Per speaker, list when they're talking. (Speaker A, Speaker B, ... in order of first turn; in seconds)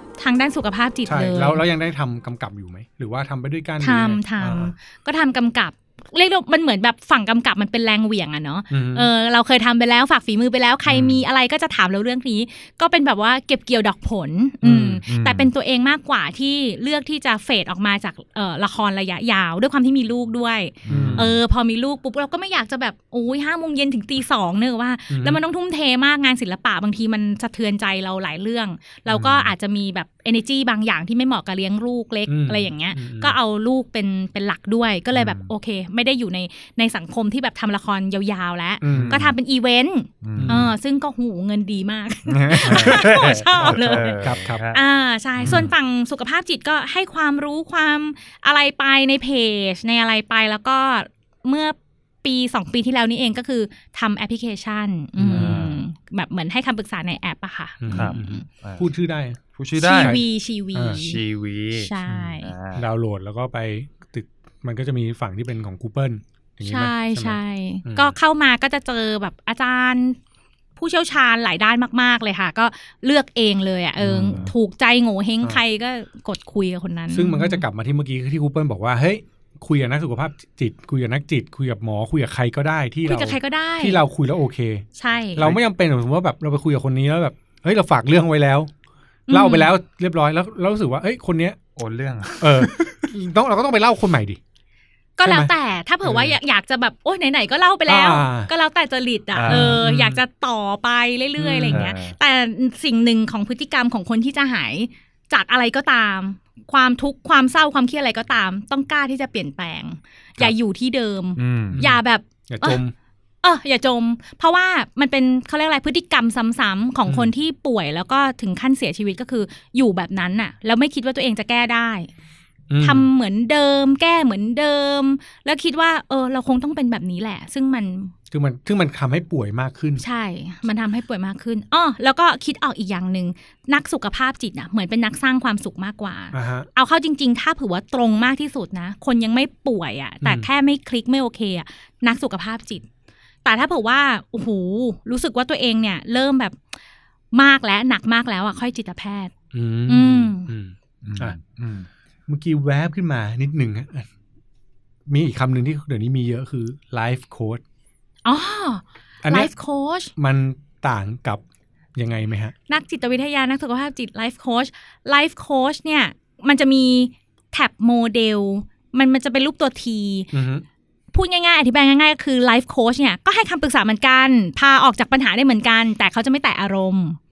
Speaker A: 0.2-1.6, 3.8-58.5, 59.8-61.2, 61.7-62.5, 66.6-70.2, 70.8-77.6, 83.1-84.0, 85.0-85.5, 89.3-89.7, 95.2-112.8, 113.4-122.1, 122.8-128.1, 130.0-142.8, 143.4-146.6, 147.3-149.3, 149.9-150.5, 158.2-160.1, 162.7-170.3, 171.1-177.2
Speaker B: 1.1-4.7, 8.7-9.1, 14.6-15.0, 20.9-21.4, 25.1-25.4, 32.3-33.4, 38.8-39.2, 40.4-40.7, 42.6-44.6, 55.2-55.7, 57.8-59.4, 60.0-60.2, 60.8-61.0, 62.8-68.2, 74.0-74.5, 77.1-88.7, 89.3-91.6, 92.4-94.4, 95.2-95.5, 96.0-96.3, 97.9-98.5, 99.5-100.2, 101.4-101.9, 111.7-112.9, 117.1-117.3, 122.7-123.1, 128.3-130.0, 136.3-136.7, 140.2-140.5, 149.5-151.4, 152.3-154.1, 155.1-157.6, 159.2-159.5, 160.2-161.4, 162.0-162.5, 170.3-170.7
Speaker C: 10.9-11.2, 15.1-15.5, 20.8-21.4, 29.1-29.5, 35.1-35.5, 38.9-39.4, 40.2-40.7, 42.3-44.8, 45.4-45.7, 55.3-55.8, 57.9-58.9, 59.5-60.2, 60.9-62.9, 74.1-74.5, 91.8-93.0, 99.3-99.9, 101.7-102.2, 111.4-111.8, 151.0-151.9